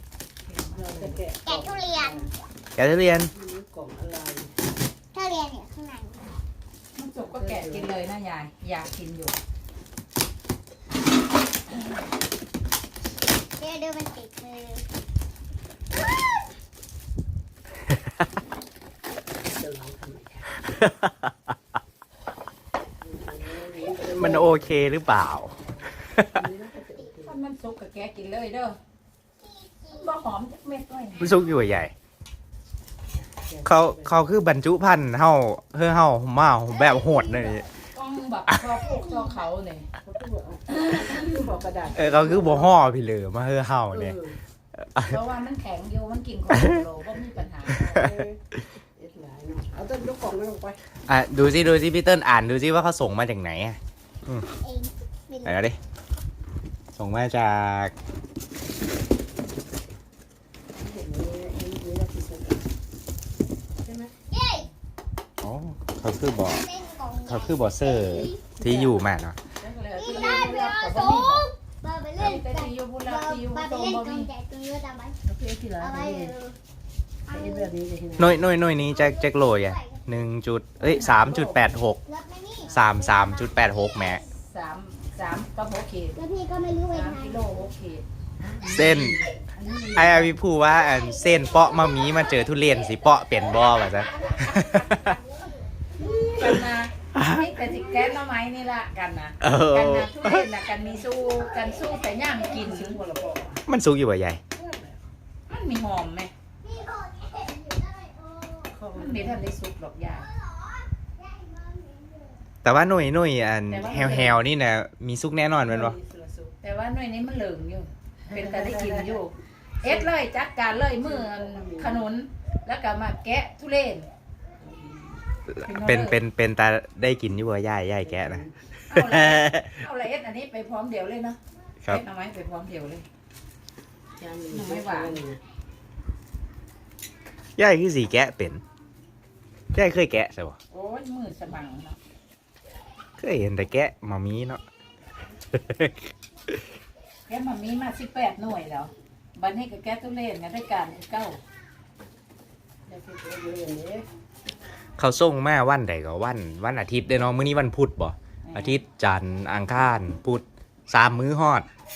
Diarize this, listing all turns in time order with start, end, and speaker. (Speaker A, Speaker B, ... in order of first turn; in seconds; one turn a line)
Speaker A: 0.5-1.2
Speaker B: 0.7-2.3
Speaker C: 1.4-2.3
Speaker D: 2.8-3.3
Speaker B: 3.3-4.5
Speaker C: 5.1-6.3
Speaker A: 7.0-9.4
Speaker B: 7.2-7.9
Speaker C: 13.6-14.8
Speaker B: 19.4-20.5
Speaker D: 20.7-21.3
Speaker B: 23.0-24.7
Speaker D: 24.1-25.5
Speaker B: 26.3-27.4
Speaker A: 27.2-28.8
Speaker C: 29.4-30.0
Speaker A: 29.9-31.4
Speaker D: 31.2-31.9
Speaker B: 33.4-34.1
Speaker D: 33.6-37.7
Speaker C: 36.8-37.6
Speaker A: 37.9-39.9
Speaker C: 39.0-39.3
Speaker B: 40.0-42.8
Speaker A: 40.7-41.5
Speaker D: 42.0-44.2
Speaker B: 43.9-44.4
Speaker D: 44.9-45.2
Speaker A: 45.0-48.0
Speaker B: 47.7-48.4
Speaker B: 49.0-50.8
Speaker D: 51.1-54.5
Speaker C: 54.6-55.5
Speaker D: 55.5-55.8
Speaker D: 57.0-57.9
Speaker B: 60.8-62.6
Speaker B: 63.8-64.1
Speaker C: 64.3-64.7
Speaker D: 65.4-66.7
Speaker C: 66.5-68.5
Speaker D: 67.3-69.4
Speaker B: 68.6-69.0
Speaker A: 69.6-71.5
Speaker C: 70.0-75.2
Speaker A: 72.2-74.3
Speaker B: 75.2-76.3
Speaker C: 75.8-76.6
Speaker C: 77.3-77.7
Speaker B: 77.3-78.4
Speaker D: 78.2-82.0
Speaker C: 78.9-80.0
Speaker A: 80.8-81.8
Speaker C: 82.1-84.2
Speaker A: 82.6-82.9
Speaker D: 82.7-84.2
Speaker A: 84.3-86.2
Speaker C: 86.2-87.4
Speaker A: 86.9-88.0
Speaker B: 88.4-90.5
Speaker D: 88.7-89.2
Speaker D: 89.9-95.2
Speaker C: 90.9-94.5
Speaker A: 94.4-94.8
Speaker C: 96.0-96.5
Speaker A: 96.4-103.0
Speaker D: 97.2-97.5
Speaker D: 99.4-100.5
Speaker B: 102.5-103.6
Speaker D: 103.7-104.4
Speaker B: 104.5-105.0
Speaker A: 105.5-106.3
Speaker C: 106.6-108.7
Speaker B: 108.7-109.5
Speaker A: 108.9-110.3
Speaker C: 110.5-112.3
Speaker D: 112.6-116.0
Speaker A: 113.7-114.4
Speaker B: 115.6-116.5
Speaker A: 116.6-124.1
Speaker B: 118.3-119.2
Speaker B: 119.8-120.1
Speaker B: 121.0-122.0
Speaker B: 124.6-125.2
Speaker D: 125.5-128.4
Speaker A: 125.6-126.2
Speaker B: 128.0-128.6
Speaker A: 128.9-133.1
Speaker D: 129.0-129.8
Speaker B: 134.2-135.4
Speaker A: 134.5-135.2
Speaker D: 137.6-138.6
Speaker D: 139.7-140.6
Speaker A: 140.7-142.0
Speaker D: 143.2-144.6
Speaker D: 145.5-145.9
Speaker A: 147.3-151.4
Speaker B: 152.9-154.1
Speaker D: 155.0-161.7
Speaker A: 158.4-158.8